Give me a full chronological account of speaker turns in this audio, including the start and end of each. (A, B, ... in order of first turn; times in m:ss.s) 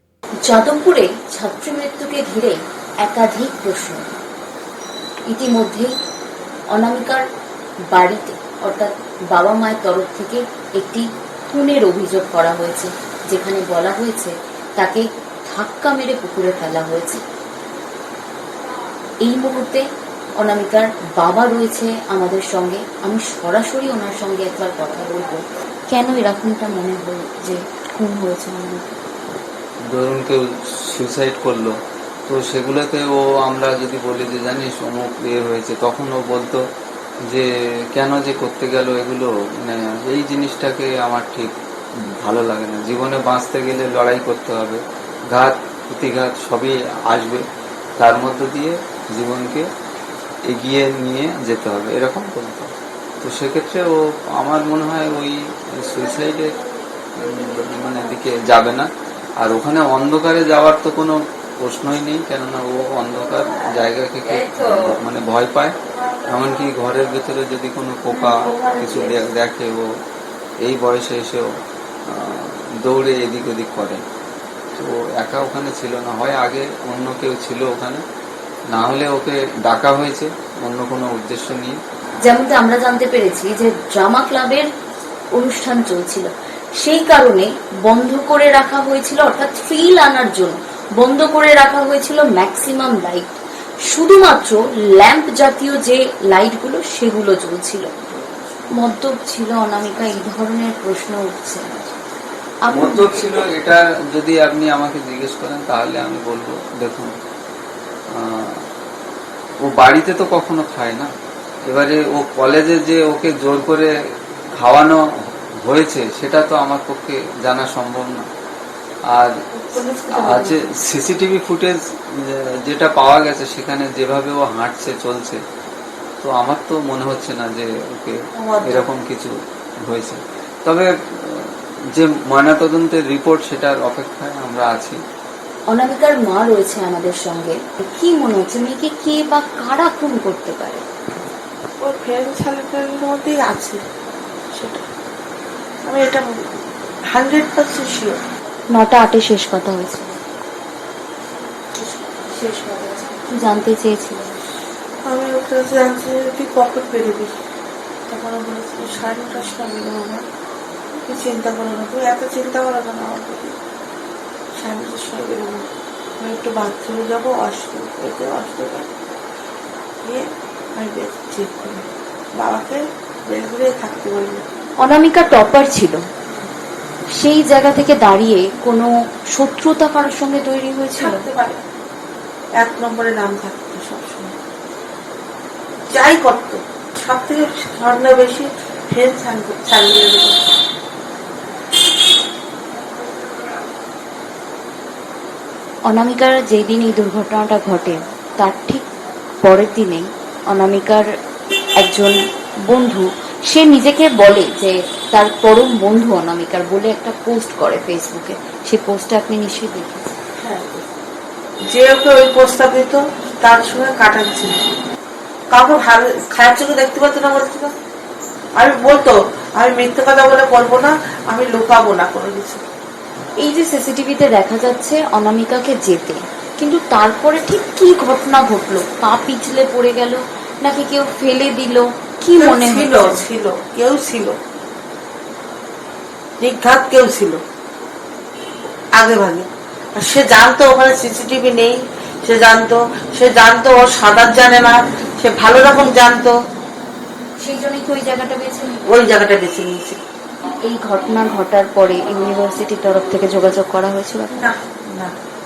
0:00.5-0:04.1 A
0:05.3-0:05.9 A
0:06.7-0:07.2 A
0:07.9-0:17.2 A
0:19.2-0:19.8 A
0:20.4-0:29.0 A
0:29.9-0:31.7 B
0:32.3-0:36.6 B
0:37.3-0:41.5 B
0:42.2-0:44.8 B
0:45.3-0:47.4 B
0:48.0-0:49.6 B
0:50.5-0:56.6 B
0:57.2-0:58.9 B
0:59.4-1:05.7 B
1:06.2-1:09.8 B
1:08.1-1:09.1 C
1:10.6-1:11.5 B
1:12.1-1:14.0 B
1:14.8-1:18.0 B
1:18.7-1:21.8 B
1:22.2-1:24.7 A
1:25.3-1:33.3 A
1:33.9-1:38.0 A
1:38.8-1:42.0 A
1:42.7-1:43.5 A
1:42.7-1:47.2 B
1:48.1-1:48.6 B
1:49.7-1:51.1 B
1:51.7-1:53.9 B
1:54.6-1:55.0 B
1:55.6-1:58.3 B
1:59.5-2:00.7 C
2:00.1-2:05.4 B
2:06.2-2:15.0 B
2:08.4-2:08.9 C
2:15.7-2:20.8 A
2:21.8-2:23.8 C
2:24.5-2:24.8 C
2:25.8-2:26.3 C
2:27.1-2:28.2 C
2:28.7-2:30.2 A
2:31.8-2:34.4 A
2:35.0-2:37.3 C
2:38.1-2:40.2 C
2:41.1-2:43.5 C
2:44.6-2:45.7 C
2:46.2-2:48.9 C
2:50.0-2:54.4 C
2:54.8-2:56.0 A
2:57.1-3:01.2 A
3:01.0-3:01.6 C
3:02.6-3:04.3 C
3:05.9-3:10.4 C
3:15.9-3:18.8 A
3:19.4-3:21.0 A
3:21.8-3:30.1 A
3:30.4-3:30.8 C
3:31.7-3:34.6 C
3:35.5-3:37.7 C
3:38.6-3:42.6 C
3:43.4-3:53.2 A
3:52.4-3:54.4 C
3:56.4-3:57.4 C
3:58.9-4:06.4 C
4:07.4-4:08.9 A
4:08.8-4:10.0 C
4:10.6-4:14.4 A
4:14.3-4:15.2 C